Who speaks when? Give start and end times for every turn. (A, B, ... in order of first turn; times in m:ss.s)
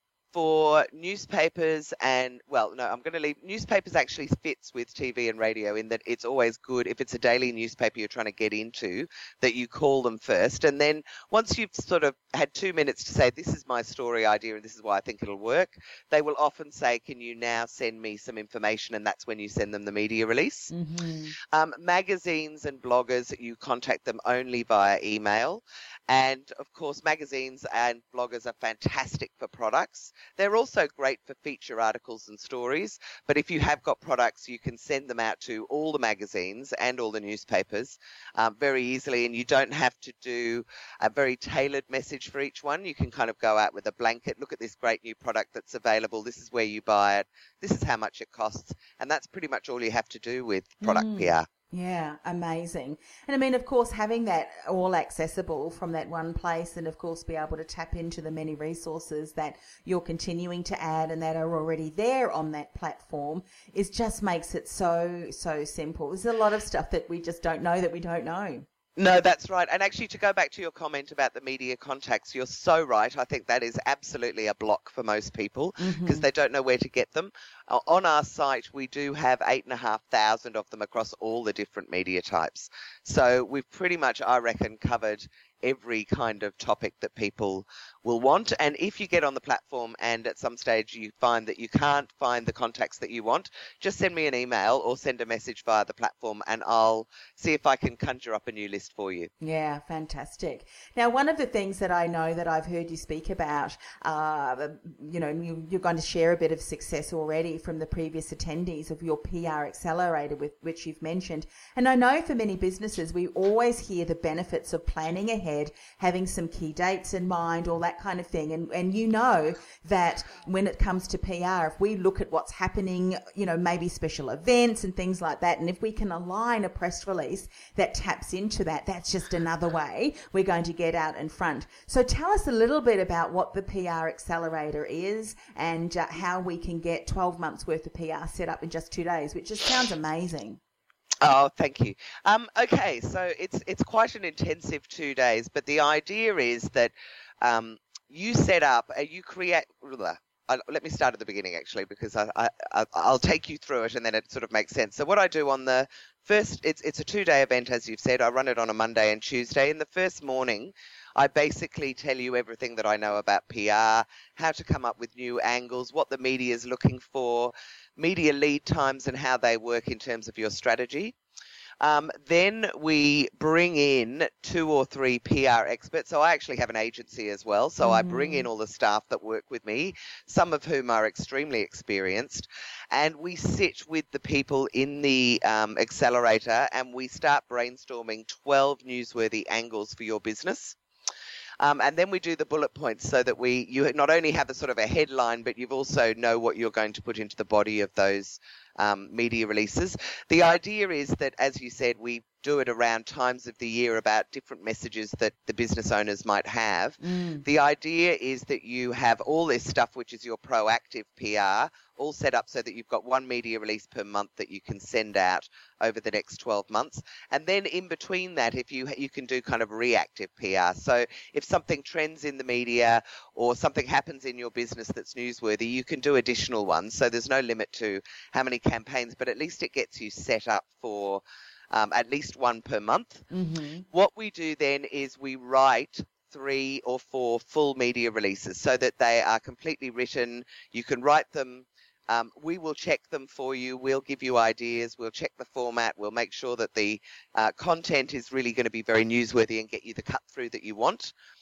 0:00.3-0:20.7 A
0:20.7-0:21.3 B
0:21.4-0:51.4 A
0:50.8-1:08.6 B
1:09.0-1:39.3 A
1:15.8-1:16.2 B
1:39.4-2:20.6 B
2:21.2-2:51.2 A
2:51.8-3:10.8 A
2:57.8-2:58.5 B
3:11.6-3:53.2 A
3:27.0-3:27.4 B
3:53.3-3:53.8 B
3:53.9-4:11.1 A